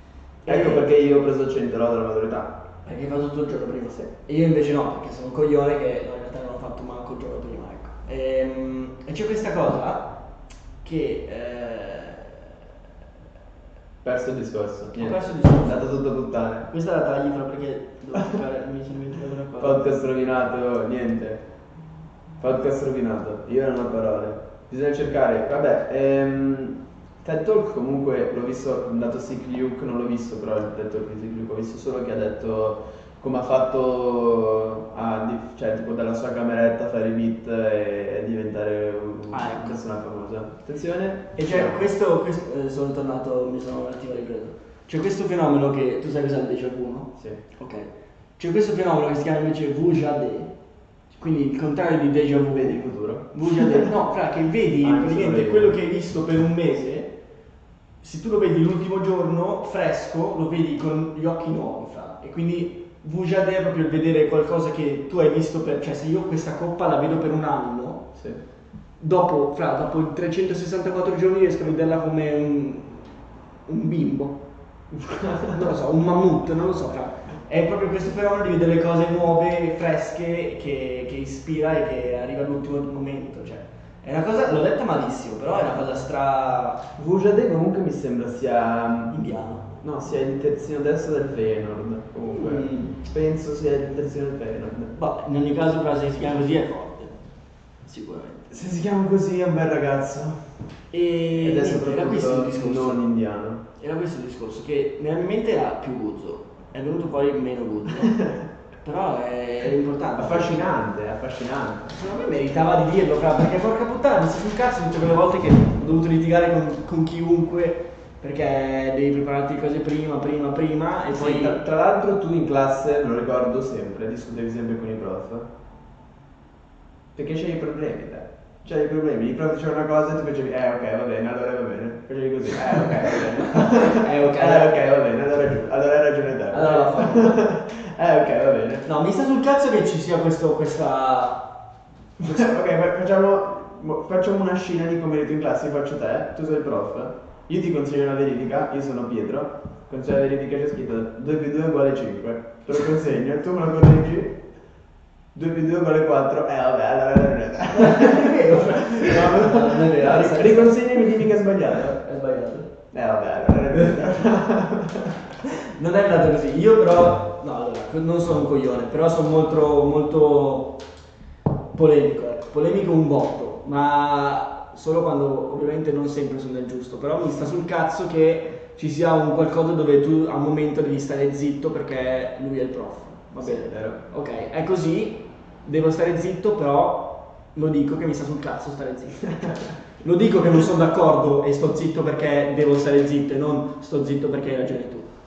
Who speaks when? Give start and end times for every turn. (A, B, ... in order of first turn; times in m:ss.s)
0:00.4-0:00.9 A
0:00.5-0:02.6 B
0:02.8-0:10.1 A
0:10.8-0:12.5 A
0:14.0-0:16.7 B
0:14.9-0:16.0 A
0:16.7-0:20.0 A
0:19.6-0:21.4 B
0:22.4-0:41.9 B
0:39.3-0:39.8 A
0:41.4-0:50.5 A
0:51.1-0:57.1 A
0:52.5-0:53.9 B
0:54.8-0:55.8 B
0:58.0-1:08.1 A
1:09.0-1:14.4 A
1:15.0-1:15.6 B
1:15.5-1:26.8 A
1:27.0-1:29.1 B
1:29.1-1:29.7 A
1:29.8-1:34.9 B
1:32.3-1:33.0 A
1:34.9-1:37.1 A
1:37.8-1:38.5 A
1:38.5-1:40.4 B
1:40.9-1:43.0 A
1:41.4-1:43.6 B
1:43.8-1:48.2 A
1:48.8-1:50.7 A
1:50.2-1:52.0 B
1:51.9-2:01.6 A
2:01.1-2:05.5 B
2:07.2-2:18.9 B
2:13.4-2:14.8 A
2:16.5-2:17.4 A
2:18.8-2:21.4 A
2:22.2-2:34.4 B
2:35.3-2:42.0 B
2:37.7-2:41.1 A
2:42.0-2:42.7 A
2:42.9-2:45.2 B
2:45.4-2:50.8 A
2:51.7-3:15.1 A
3:03.4-3:04.0 B